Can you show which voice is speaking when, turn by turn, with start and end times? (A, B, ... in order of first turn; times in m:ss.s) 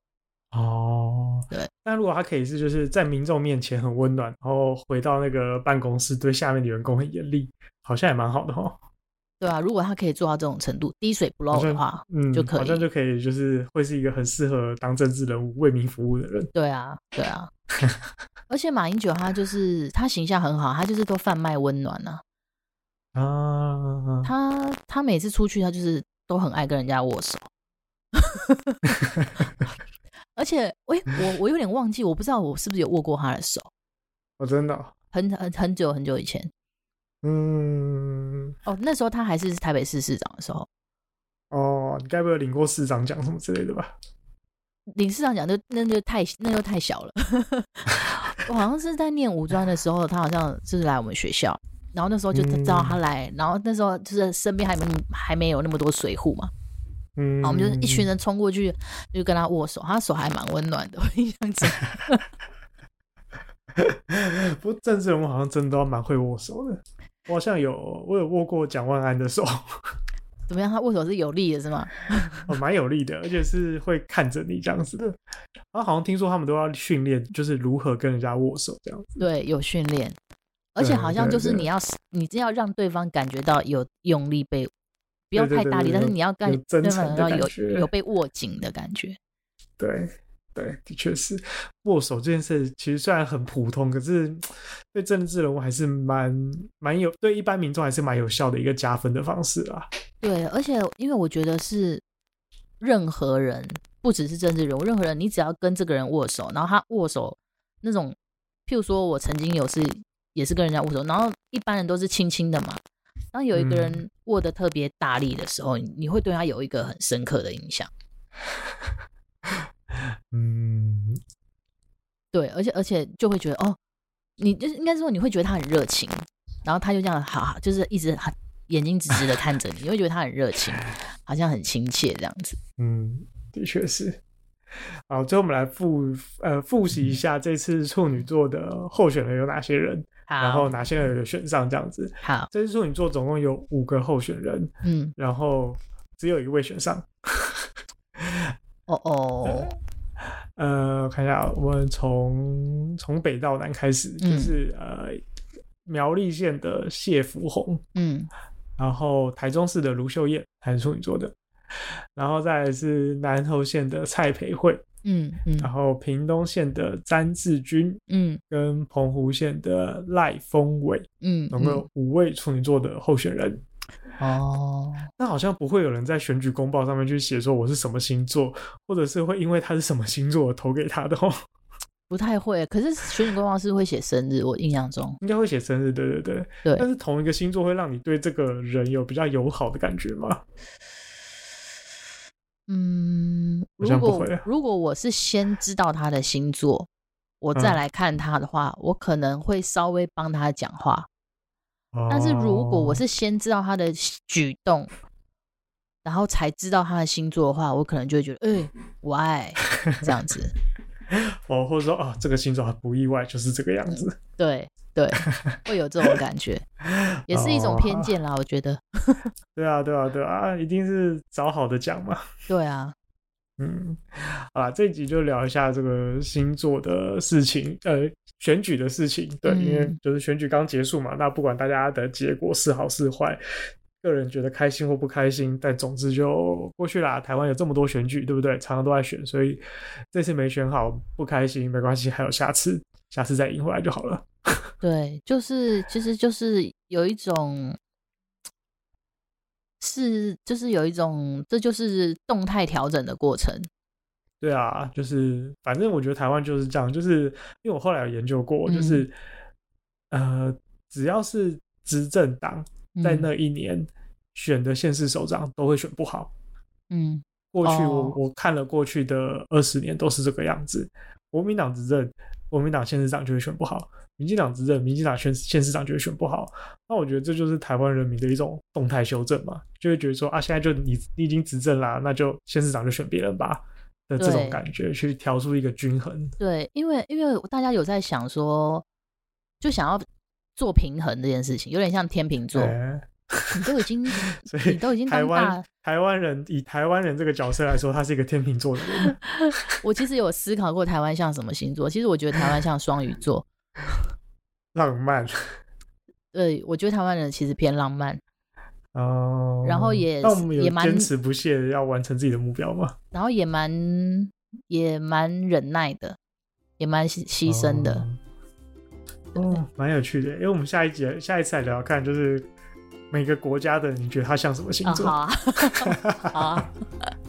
0:00.5-0:08.8 A
0:09.4-0:12.9 B
0:11.5-0:16.5 A
0:16.5-0:17.5 B
0:18.5-0:22.2 B
0:23.1-0:24.3 A
0:24.2-0:27.5 B
0:28.1-0:29.0 B
0:29.2-0:29.4 A
0:30.4-0:33.7 B
0:34.4-0:34.9 A
0:35.1-0:36.5 B
0:37.2-0:38.5 A
0:38.6-0:40.7 B
0:41.5-0:43.9 A
0:45.0-0:56.5 B
0:52.3-0:53.0 A
0:57.2-0:58.1 A
0:57.4-1:02.3 B
1:03.8-1:09.8 A
1:10.5-1:12.5 B
1:12.5-1:15.2 A
1:15.7-1:19.2 A
1:19.2-1:20.2 B
1:20.8-1:24.7 B
1:20.8-1:21.7 A
1:25.3-1:29.2 B
1:25.4-1:27.9 A
1:29.8-1:39.9 A
1:40.2-1:42.0 B
1:42.8-1:52.8 B
1:53.3-1:57.9 B
1:53.5-1:54.0 A
1:59.9-2:01.2 A
2:02.3-2:03.8 B
2:04.4-2:12.6 B
2:12.8-2:14.2 A
2:15.1-2:28.5 A
2:20.3-2:20.7 B
2:22.2-2:22.5 B
2:24.8-2:25.1 B
2:28.9-2:29.8 B
2:29.4-2:29.7 A
2:30.6-2:35.2 A
2:34.2-2:34.5 B
2:35.9-2:37.8 A
2:37.9-2:38.3 B
2:38.8-2:41.4 A
2:42.2-2:44.8 A
2:45.0-2:45.7 B
2:45.6-2:53.6 A
2:48.1-2:48.4 B
2:51.2-2:51.9 B
2:54.2-2:55.1 B
2:55.2-3:01.4 A
3:02.1-3:05.2 B
3:05.2-3:10.4 A
3:12.7-3:16.9 B
3:13.8-3:14.5 A
3:17.4-3:21.1 B
3:21.9-3:23.0 A
3:22.1-3:24.9 B
3:26.0-3:30.6 B
3:29.7-3:30.1 A
3:31.1-3:34.2 A
3:34.4-3:36.6 B
3:35.3-3:36.1 A
3:36.8-3:38.1 A
3:37.3-3:39.3 B
3:39.6-3:42.3 A
3:42.5-3:42.9 B
3:43.6-3:53.4 A
3:49.4-3:50.0 B
3:54.0-4:04.7 A
4:04.8-4:07.8 B
4:09.8-4:13.7 B
4:14.4-4:19.1 A
4:18.6-4:19.1 B
4:20.1-4:26.3 A
4:22.9-4:23.3 B
4:26.9-4:28.2 B
4:27.5-4:46.4 A
4:44.2-4:44.6 B
4:46.4-4:48.8 B
4:49.6-4:50.0 B
4:50.6-4:52.7 B
4:52.5-4:53.6 A
4:53.6-4:55.6 B
4:54.3-4:59.2 A
4:59.2-5:03.5 B
5:04.7-5:05.6 A
5:06.3-5:08.2 B
5:08.9-5:13.0 A
5:09.6-5:11.1 B
5:13.1-5:16.2 B
5:16.8-5:18.1 B
5:17.4-5:18.2 A
5:19.4-5:22.5 A
5:23.1-5:25.2 A
5:24.9-5:26.8 B
5:25.8-5:26.7 A